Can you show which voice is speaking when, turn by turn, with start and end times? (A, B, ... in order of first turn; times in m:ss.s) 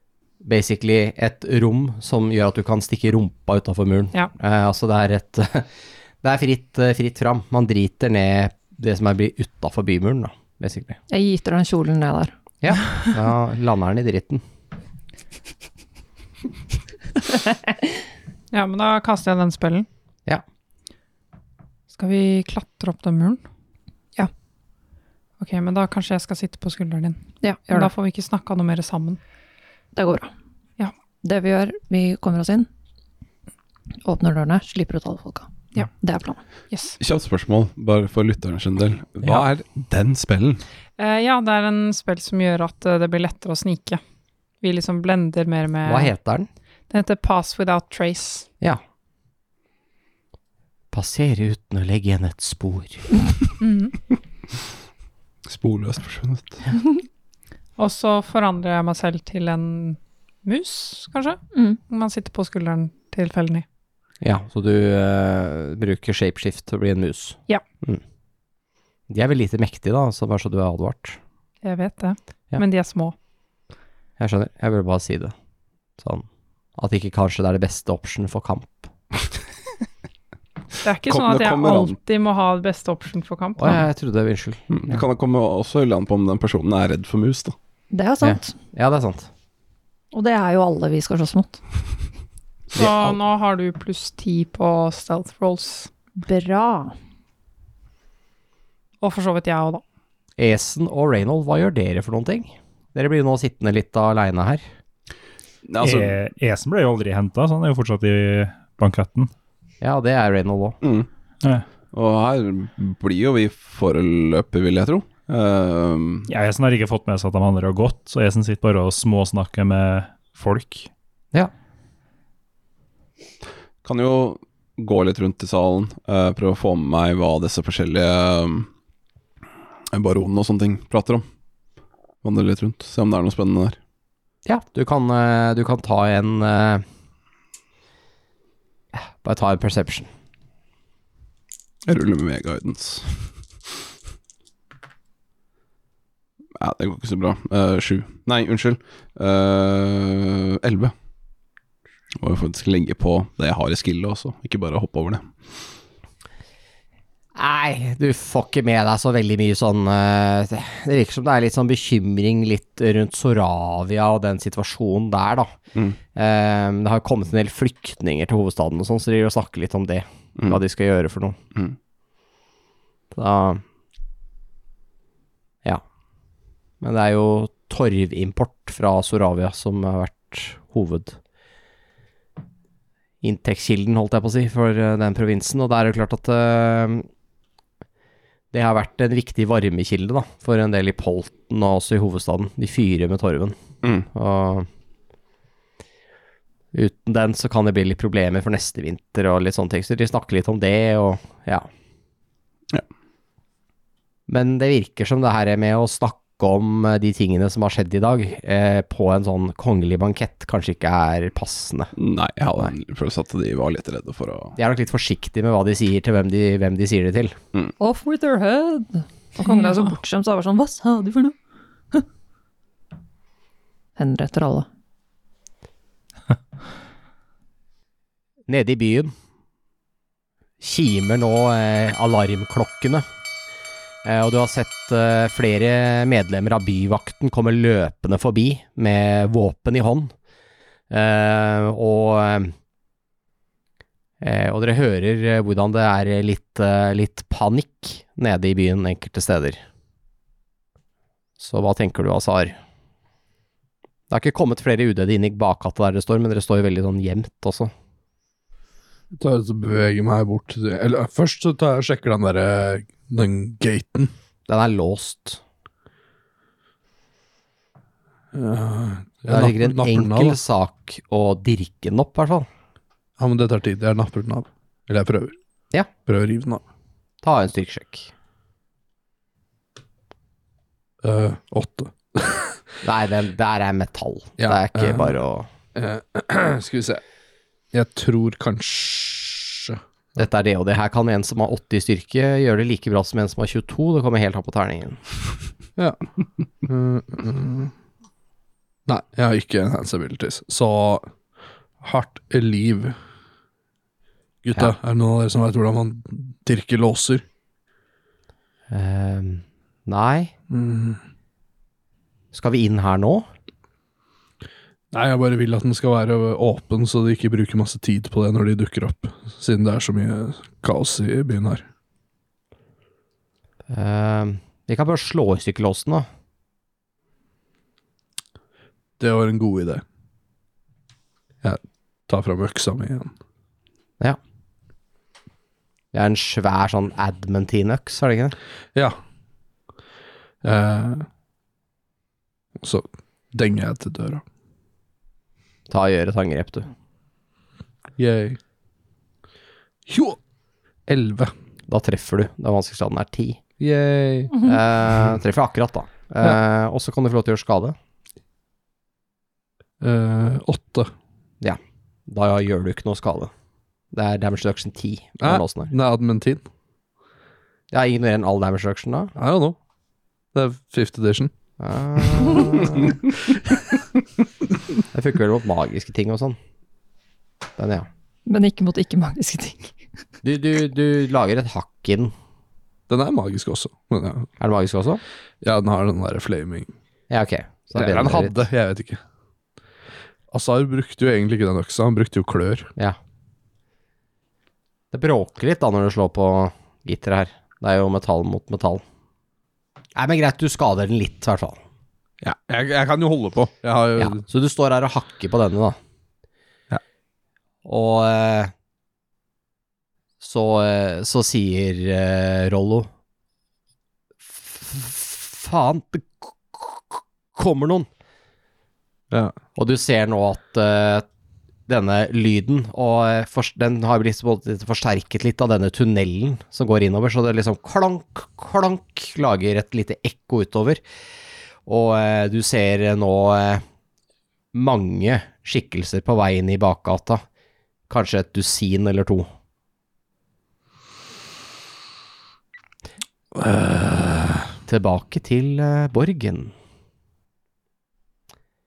0:00.4-0:05.7 A
0:06.2-0:11.0 A
0:11.1-0:12.3 B
0:12.6-0:14.4 A
0:18.5-0:19.9 C
0:21.9-0:23.4 C
0:25.4-0:29.2 C
0:27.4-0:27.9 B
0:30.0-0:30.3 B
0:31.2-0:32.7 B
0:34.0-0:36.4 B
0:36.7-0:37.0 C
0:37.0-0:40.6 D
0:41.0-0:44.0 C
0:44.6-0:46.1 C
0:45.9-0:46.5 A
0:46.9-0:48.5 C
0:50.9-0:53.2 A
0:53.6-0:54.0 C
0:55.5-0:56.7 D
0:57.8-1:03.6 C
1:01.5-1:01.8 B
1:04.2-1:08.0 A
1:09.1-1:11.2 A
1:11.6-1:13.1 C
1:14.2-1:15.3 A
1:16.0-1:16.3 A
1:16.8-1:18.9 A
1:20.8-1:23.8 C
1:21.1-1:22.0 D
1:23.6-1:25.0 A
1:24.7-1:27.6 D
1:27.9-1:28.6 B
1:28.2-1:29.3 A
1:30.1-1:31.6 B
1:32.7-1:35.9 C
1:32.8-1:33.2 A
1:36.2-1:37.0 B
1:39.0-1:39.8 C
1:40.4-1:44.6 A
1:45.7-1:46.2 D
1:45.8-1:49.3 E
1:49.8-1:50.8 A
1:50.8-1:51.1 D
1:51.9-1:56.3 D
1:56.3-2:00.9 E
2:03.8-2:08.7 D
2:09.9-2:11.2 D
2:12.2-2:13.8 D
2:14.5-2:16.8 A
2:18.9-2:20.1 A
2:21.9-2:23.3 D
2:26.6-2:30.9 D
2:32.2-2:35.3 D
2:37.4-2:45.5 A
2:46.1-2:51.4 A
2:53.1-2:53.6 A
2:56.8-3:01.2 A
3:03.2-3:07.1 A
3:08.5-3:13.6 A
3:14.1-3:14.7 A
3:16.7-3:21.7 A
3:24.3-3:31.9 A
3:32.0-3:34.6 D
3:34.6-3:37.4 A
3:37.8-3:41.4 B
3:39.5-3:39.9 C
3:44.0-3:44.7 B
3:48.5-3:49.1 A
3:50.6-3:53.0 A
3:54.0-4:00.1 A
4:00.9-4:02.5 A
4:04.2-4:09.6 A
4:11.4-4:12.6 A
4:14.1-4:17.7 A
4:19.1-4:24.1 F
4:24.5-4:25.4 A
4:28.3-4:30.4 F
4:29.3-4:32.5 A
4:33.2-4:35.4 F
4:36.1-4:36.6 F
4:37.2-4:38.1 A
4:41.0-4:42.6 F
4:42.8-4:45.5 A
4:44.4-4:45.2 F
4:45.8-4:47.0 F
4:47.7-4:49.8 F
4:50.2-4:55.0 A
4:55.8-4:56.0 F
4:56.6-4:57.7 F
4:58.9-5:01.1 F
5:01.8-5:03.0 F
5:04.4-5:07.2 F
5:08.7-5:10.3 A
5:10.5-5:11.0 F
5:12.3-5:13.3 A
5:14.9-5:21.6 F
5:23.7-5:26.1 A
5:29.0-5:29.8 F
5:31.4-5:33.1 F
5:35.9-5:38.4 A
5:40.4-5:41.1 F
5:42.6-5:44.2 F
5:45.7-5:46.7 A
5:48.0-5:48.4 F
5:49.9-5:50.2 F
5:50.9-5:51.3 F
5:51.7-5:53.4 A
5:53.6-5:54.4 F
5:54.4-5:57.8 A
5:59.8-6:00.9 F
6:01.4-6:03.3 A
6:03.9-6:05.7 A
6:05.2-6:06.4 F
6:07.7-6:09.1 A
6:09.2-6:09.6 F
6:10.3-6:11.3 F
6:11.6-6:13.0 A
6:14.9-6:16.4 A
6:17.6-6:17.9 A
6:18.3-6:19.7 B
6:20.2-6:22.1 A
6:22.9-6:24.3 F
6:24.4-6:25.0 A
6:25.4-6:26.7 F
6:27.1-6:28.4 A
6:27.8-6:29.0 F
6:30.3-6:32.7 F
6:34.9-6:38.8 A
6:40.0-6:41.6 A
6:42.2-6:44.2 F
6:44.0-6:45.8 A
6:47.6-6:48.5 A
6:50.2-6:52.9 A
6:54.3-6:57.9 A
6:59.1-6:59.4 F
6:59.6-7:01.1 A
7:01.7-7:10.8 A
7:11.7-7:13.6 A
7:14.5-7:17.2 A
7:17.9-7:19.3 A
7:23.4-7:24.5 F
7:24.6-7:26.5 A